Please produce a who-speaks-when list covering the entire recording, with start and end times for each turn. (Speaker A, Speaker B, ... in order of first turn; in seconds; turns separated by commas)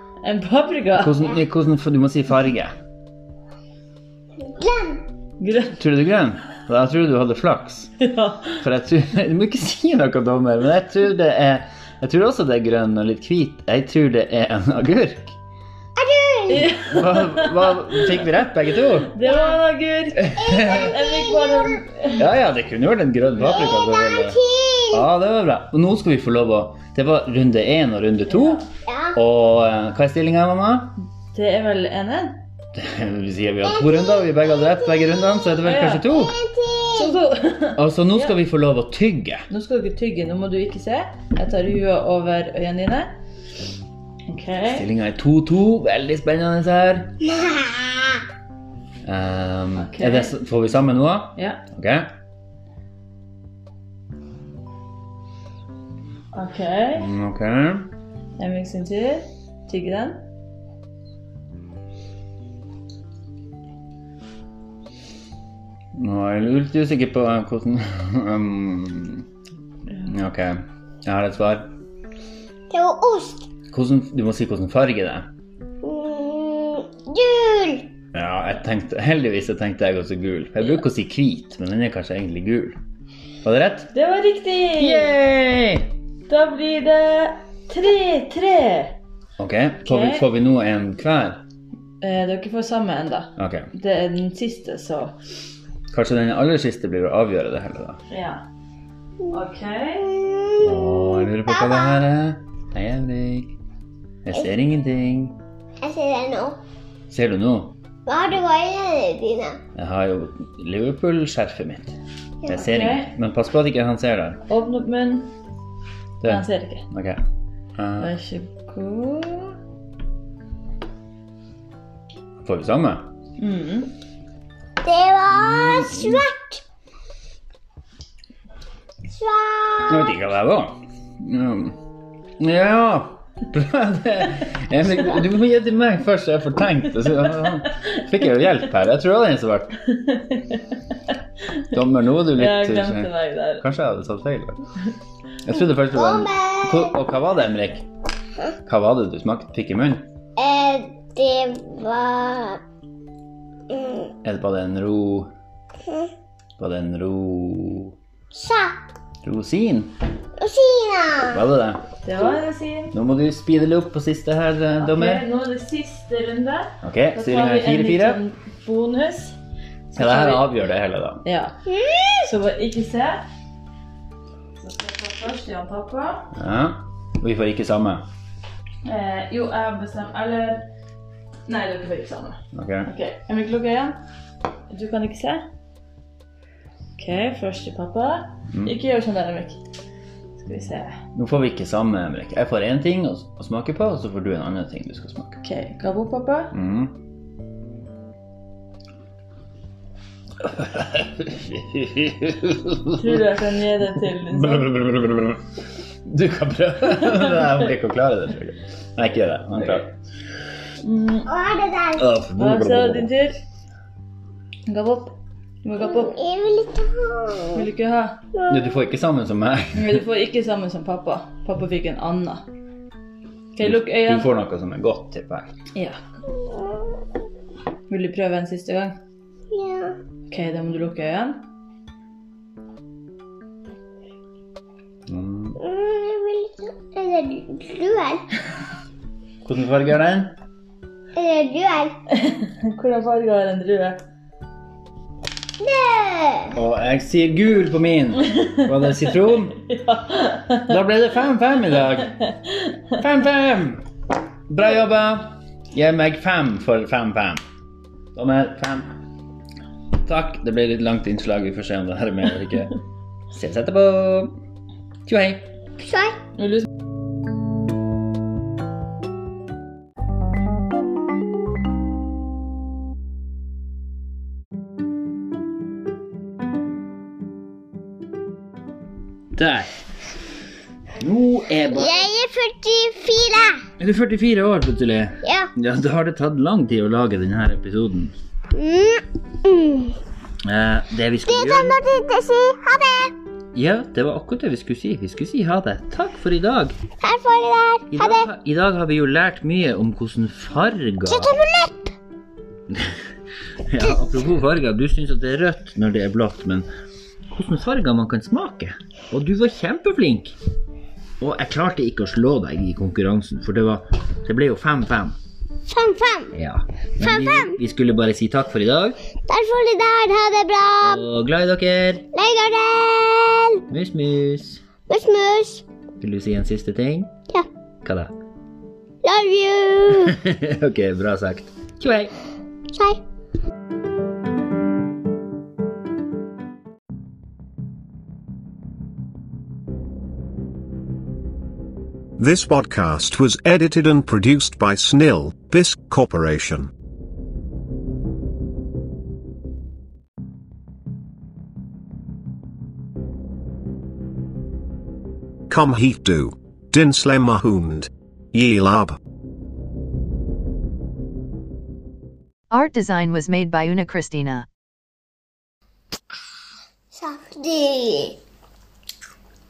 Speaker A: 0.2-1.2, Speaker B: 1.0-2.7, Speaker C: 4.4-5.1, Speaker A: 5.4-5.8, Speaker B: 5.8-7.9, Speaker A: 8.0-8.6, Speaker B: 8.6-15.4, Speaker C: 16.0-16.7, Speaker A: 16.5-17.6, Speaker B: 16.7-19.1, Speaker A: 19.1-22.2, Speaker C: 19.2-19.6, Speaker B: 20.2-20.9, Speaker C: 20.4-21.8, Speaker B: 22.1-24.4, Speaker C: 23.4-25.1, Speaker B: 24.9-28.6, Speaker A: 28.3-28.7, Speaker C: 28.9-29.2, Speaker B: 29.1-30.9, Speaker A: 31.3-32.4, Speaker B: 32.7-36.4, Speaker C: 33.6-37.1, Speaker A: 35.6-36.1, Speaker A: 36.9-38.3, Speaker B: 37.8-39.5, Speaker A: 39.5-43.1, Speaker A: 44.3-44.9, Speaker B: 44.7-47.2, Speaker C: 47.2-48.2, Speaker B: 49.0-52.1, Speaker A: 49.7-50.4, Speaker A: 51.4-51.6, Speaker A: 56.3-57.1, Speaker B: 57.0-57.9, Speaker A: 58.4-60.2, Speaker B: 65.9-69.3, Speaker B: 70.0-71.7, Speaker C: 72.7-73.5, Speaker B: 73.7-75.3, Speaker C: 75.8-77.9, Speaker B: 78.1-82.8, Speaker B: 83.4-83.9, Speaker A: 83.9-85.1, Speaker B: 84.7-85.9, Speaker A: 86.3-89.0, Speaker B: 89.4-91.4, Speaker A: 89.8-90.2, Speaker A: 92.0-95.1, Speaker B: 93.4-93.7, Speaker B: 95.9-98.0, Speaker A: 98.1-98.4, Speaker A: 99.3-100.1, Speaker C: 100.0-102.0, Speaker B: 100.6-103.5, Speaker B: 104.2-105.4, Speaker C: 105.8-106.6, Speaker B: 107.1-107.8, Speaker C: 108.0-109.6, Speaker B: 109.7-111.9, Speaker B: 112.5-114.4, Speaker A: 112.5-113.1, Speaker A: 114.5-115.3, Speaker B: 116.2-117.2, Speaker A: 116.2-116.8, Speaker B: 117.8-118.1, Speaker A: 118.0-119.5, Speaker B: 122.4-123.1, Speaker A: 123.4-123.9, Speaker C: 124.8-126.6, Speaker B: 125.3-126.2, Speaker C: 129.1-130.2, Speaker B: 129.9-131.8, Speaker B: 132.4-139.8, Speaker A: 139.9-140.6, Speaker B: 141.7-144.6, Speaker A: 142.3-143.6, Speaker B: 145.4-147.8, Speaker C: 145.9-147.0, Speaker B: 148.7-150.1, Speaker C: 150.4-152.6, Speaker C: 153.7-154.1, Speaker B: 154.2-155.3, Speaker C: 155.8-156.1, Speaker B: 156.6-157.9, Speaker C: 158.3-158.8, Speaker B: 159.2-159.9, Speaker C: 160.4-161.4, Speaker B: 161.3-161.8, Speaker A: 162.0-162.9, Speaker B: 162.9-165.2, Speaker A: 164.8-169.4, Speaker B: 166.8-168.2, Speaker A: 169.9-170.5, Speaker B: 169.9-171.2, Speaker A: 171.2-171.6, Speaker C: 171.7-172.3, Speaker A: 172.2-173.2, Speaker A: 174.6-176.3, Speaker B: 176.3-178.0, Speaker A: 178.8-180.7, Speaker A: 181.4-184.0, Speaker B: 182.5-182.9, Speaker A: 184.7-185.4, Speaker A: 187.0-189.6, Speaker A: 190.4-191.0, Speaker B: 191.1-195.4, Speaker A: 195.4-196.6, Speaker B: 196.5-197.0, Speaker B: 200.4-203.3, Speaker A: 203.0-204.7, Speaker B: 204.2-205.4, Speaker B: 206.0-209.9, Speaker A: 210.8-211.3, Speaker C: 211.3-212.1, Speaker B: 211.9-213.1, Speaker A: 212.3-213.3, Speaker A: 214.7-216.2, Speaker C: 215.8-217.6, Speaker A: 217.5-218.2, Speaker B: 218.5-220.0, Speaker A: 219.7-222.5, Speaker A: 223.5-224.3, Speaker B: 223.6-225.5, Speaker A: 225.7-226.0, Speaker C: 226.4-226.8, Speaker A: 227.9-229.0, Speaker C: 229.5-230.0, Speaker A: 230.3-231.4, Speaker B: 235.1-235.6, Speaker C: 235.6-238.3, Speaker B: 239.4-240.3, Speaker C: 241.1-242.0, Speaker A: 242.1-244.0, Speaker C: 245.6-246.6, Speaker B: 246.5-249.6, Speaker A: 248.2-250.7, Speaker B: 250.7-252.2, Speaker A: 252.3-252.8, Speaker B: 253.0-253.8, Speaker B: 254.5-257.4, Speaker B: 258.1-258.9, Speaker B: 260.0-262.8, Speaker B: 263.3-264.3, Speaker B: 265.1-265.5, Speaker C: 265.8-266.2, Speaker A: 266.4-266.7, Speaker B: 279.3-279.7, Speaker B: 281.0-282.0, Speaker C: 281.7-283.7, Speaker B: 283.8-288.1, Speaker C: 285.2-285.5, Speaker C: 288.5-290.0, Speaker B: 290.4-291.8, Speaker C: 291.2-293.1, Speaker B: 293.5-296.8, Speaker C: 297.0-298.2, Speaker B: 297.9-301.3, Speaker C: 301.1-301.9, Speaker B: 302.7-303.0, Speaker B: 303.6-306.7, Speaker B: 307.3-310.4, Speaker B: 311.2-315.1, Speaker C: 315.7-316.3, Speaker B: 316.3-319.0, Speaker C: 317.0-317.6, Speaker C: 319.3-321.0, Speaker B: 320.8-322.1, Speaker C: 322.1-323.6, Speaker B: 323.7-324.6, Speaker C: 324.9-325.6, Speaker B: 326.0-327.1, Speaker B: 327.8-328.1, Speaker C: 329.0-330.2, Speaker B: 330.1-332.1, Speaker C: 332.7-333.0, Speaker D: 342.2-346.7, Speaker D: 355.5-358.9, Speaker E: 362.5-364.4, Speaker C: 366.9-368.2